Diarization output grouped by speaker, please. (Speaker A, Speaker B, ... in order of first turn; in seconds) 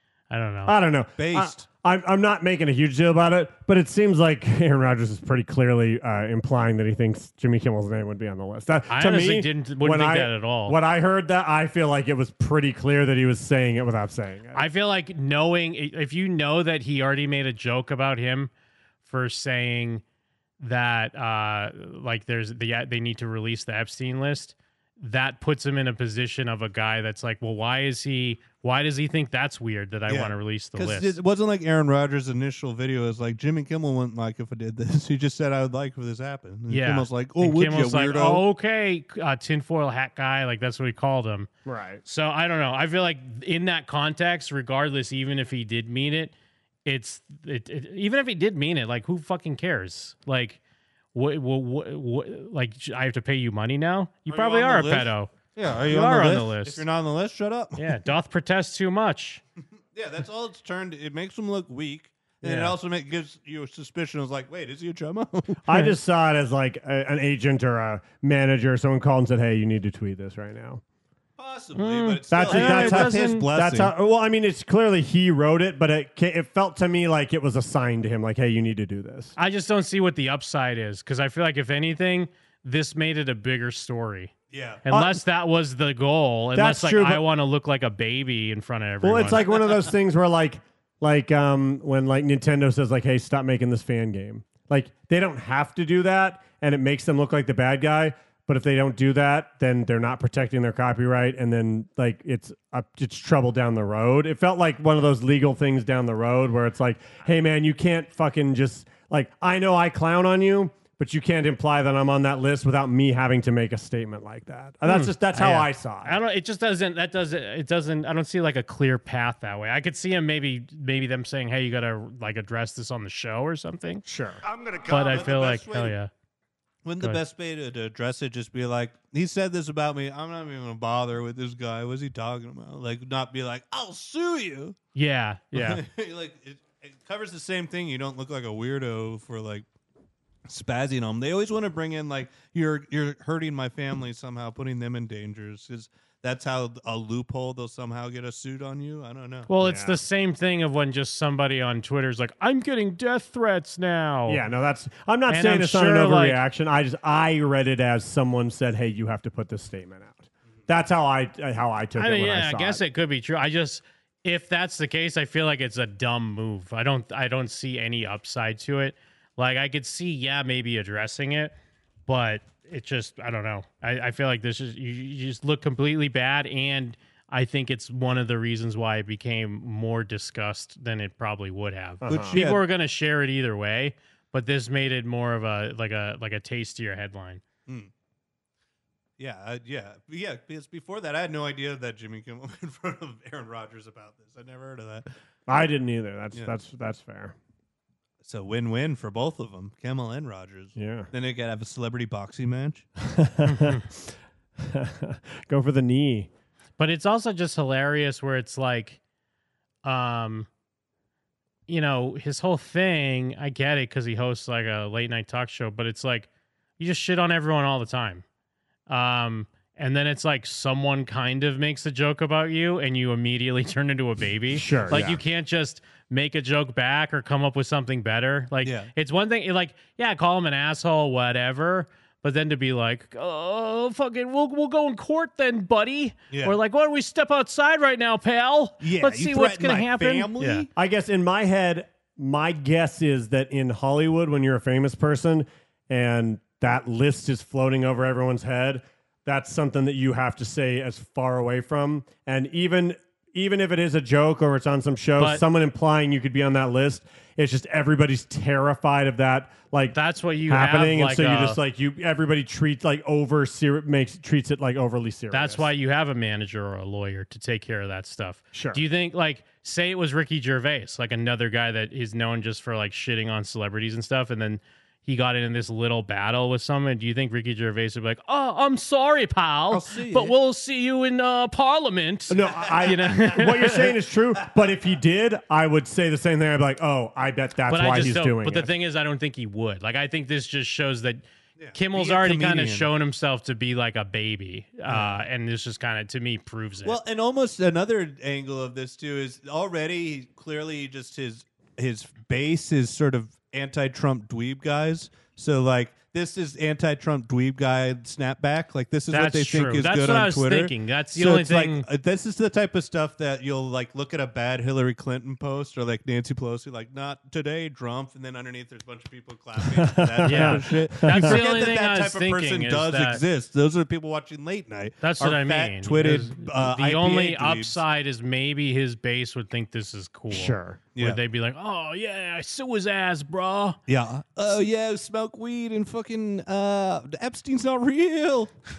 Speaker A: 0.3-0.7, 8.9-10.8, 14.5-18.5, 19.0-20.0, 20.6-31.1, 36.7-41.5, 42.0-46.3, 46.9-50.6, 51.1-55.3, 55.9-56.8, 57.8-59.4, 62.4-62.8, 71.8-73.5, 79.4-84.3, 84.9-89.5, 114.9-124.0, 124.9-126.1, 134.9-135.8, 149.5-154.4, 155.3-156.4, 162.0-171.6, 172.1-187.4, 203.4-203.8, 206.8-209.0, 209.8-210.5, 211.7-218.2, 218.9-240.7, 255.2-255.4, 259.9-261.6, 265.3-283.9, 287.7-297.0, 309.1-311.9, 320.3-323.2, 325.0-333.8
Speaker B: 0.7-14.6, 41.7-42.0, 65.7-70.8, 72.3-79.3, 84.9-85.2, 86.5-87.2, 89.0-116.2, 124.1-124.4, 149.6-150.0, 154.3-162.8, 182.0-182.4, 195.5-197.4, 200.8-201.1, 203.1-204.1, 204.6-206.3, 224.5-225.2, 240.8-265.7, 268.5-268.8, 282.3-288.7, 319.8-321.4, 330.3-330.8
Speaker C: 1.2-1.7, 30.1-38.4, 54.3-57.9, 59.9-65.6, 71.4-73.9, 84.5-84.9, 124.5-126.0, 126.8-134.8, 135.5-139.7, 140.5-149.5, 182.1-182.6, 189.2-195.1, 198.2-202.9, 228.6-228.9, 236.3-236.6, 238.8-240.7, 279.7-280.3, 291.6-292.9, 296.9-327.8, 333.9-338.5